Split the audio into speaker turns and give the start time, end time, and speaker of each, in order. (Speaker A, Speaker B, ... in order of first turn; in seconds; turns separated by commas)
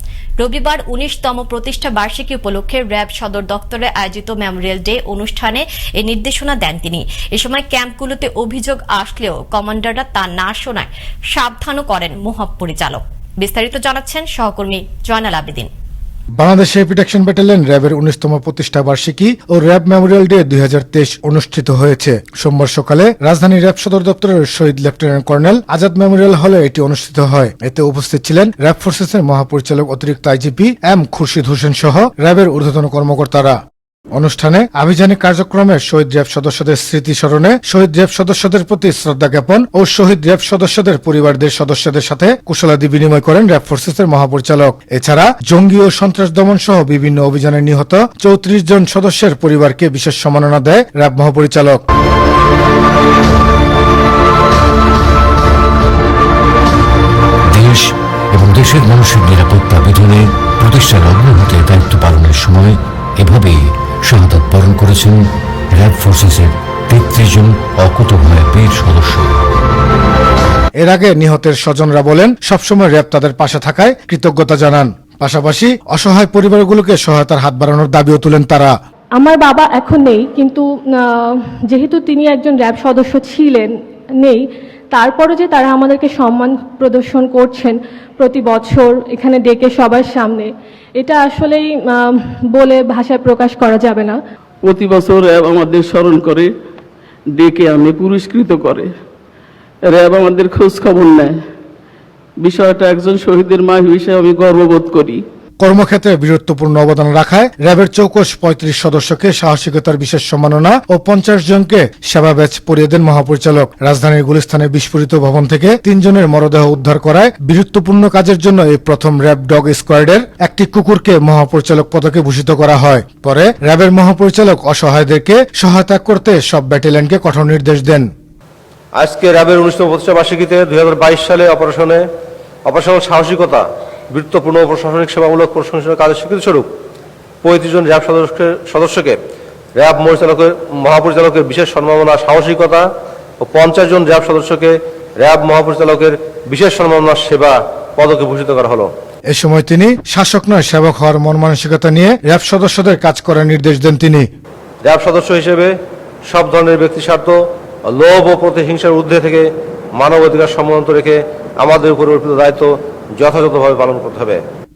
Speaker A: 0.4-15.7, Speaker B: 16.4-33.6, Speaker B: 34.1-51.8, Speaker C: 57.5-69.4, Speaker B: 70.8-78.7, Speaker D: 79.2-94.2, Speaker E: 94.6-96.5, Speaker E: 97.3-98.9, Speaker E: 99.9-101.4, Speaker E: 102.4-105.2, Speaker B: 105.6-128.1, Speaker F: 129.0-132.0, Speaker F: 132.7-136.7, Speaker F: 137.4-139.2, Speaker F: 139.8-142.9, Speaker F: 143.4-148.9, Speaker B: 149.3-154.3, Speaker F: 154.8-155.7, Speaker F: 156.3-157.4, Speaker F: 157.9-164.4